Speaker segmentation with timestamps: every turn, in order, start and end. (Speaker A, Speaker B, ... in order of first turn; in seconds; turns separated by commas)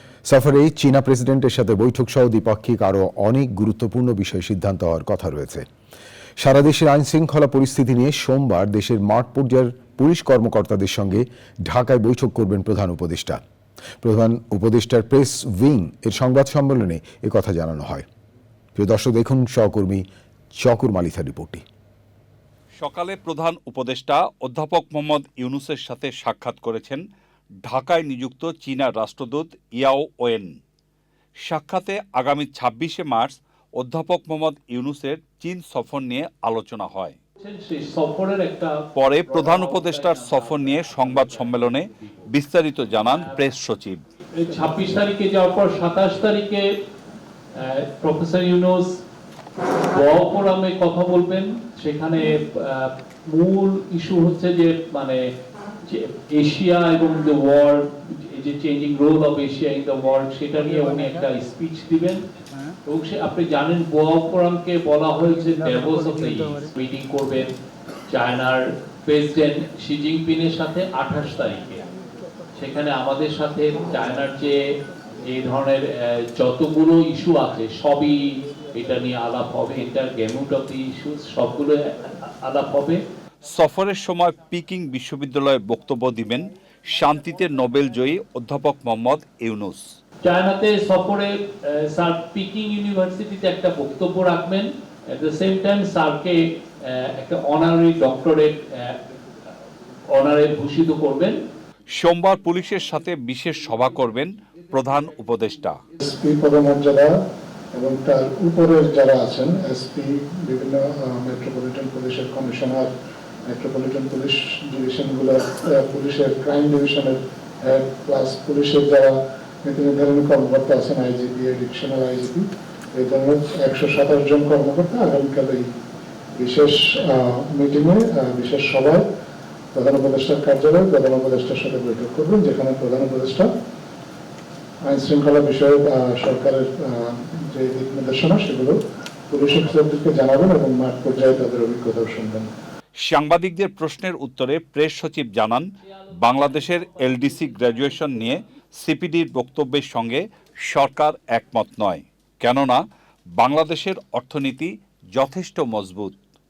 Speaker A: 0.2-5.7, Speaker A: 6.4-13.4, Speaker A: 14.0-18.1, Speaker A: 18.8-20.0, Speaker A: 20.6-21.6, Speaker B: 22.8-27.0, Speaker B: 27.6-30.6, Speaker B: 31.5-37.2, Speaker C: 37.4-42.3, Speaker B: 38.9-44.0, Speaker C: 43.0-43.3, Speaker C: 44.4-46.6, Speaker C: 47.6-48.9, Speaker C: 49.9-55.2, Speaker C: 55.9-62.2, Speaker C: 62.9-67.5, Speaker C: 68.1-71.8, Speaker C: 72.6-74.5, Speaker C: 75.3-83.0, Speaker B: 83.5-89.8, Speaker C: 90.2-99.0, Speaker C: 100.1-101.4, Speaker B: 102.0-105.8, Speaker D: 106.0-107.1, Speaker D: 107.7-112.9, Speaker D: 113.5-125.7, Speaker D: 126.3-129.1, Speaker D: 129.7-133.5, Speaker D: 134.8-138.8, Speaker D: 139.3-142.5, Speaker B: 143.1-145.7, Speaker C: 146.0-148.4, Speaker B: 146.2-152.8, Speaker B: 153.4-156.2